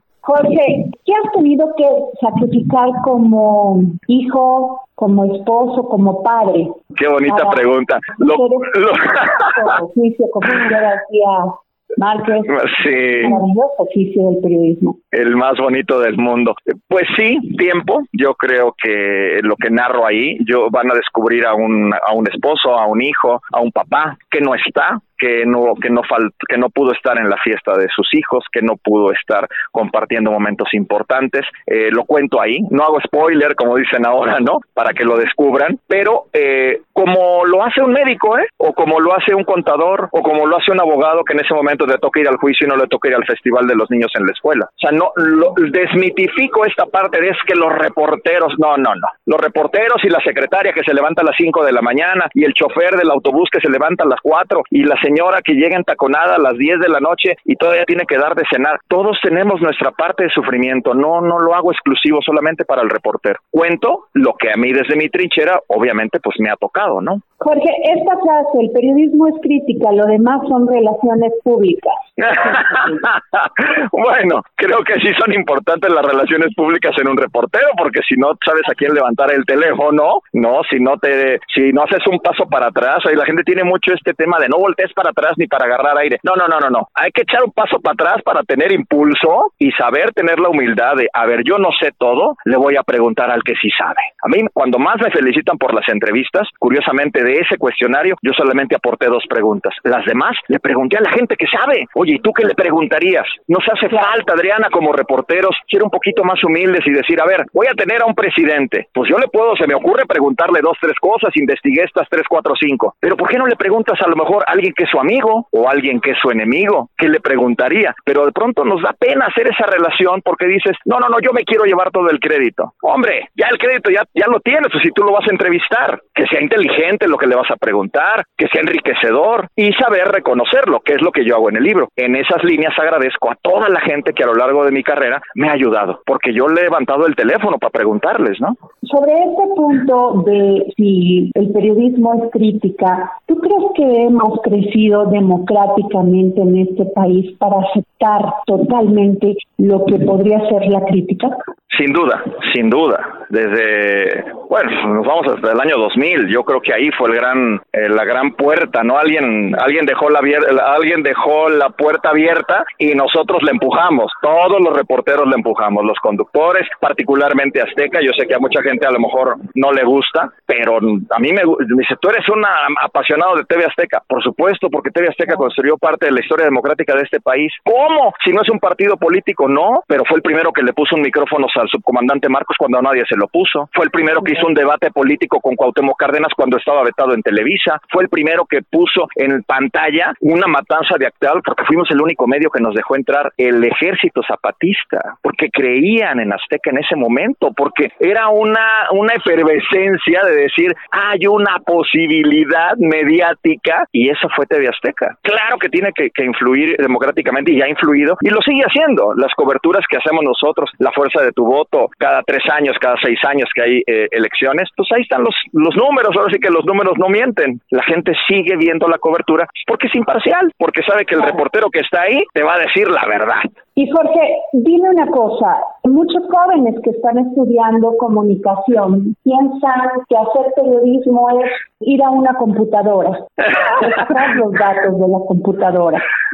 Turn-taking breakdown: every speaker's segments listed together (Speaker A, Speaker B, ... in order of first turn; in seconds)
Speaker A: 0.2-8.8, 9.4-15.0, 67.4-72.8, 138.8-151.4, 223.8-236.0
Speaker B: 6.9-9.2, 12.5-13.3, 15.1-67.2, 72.2-138.6, 151.7-223.5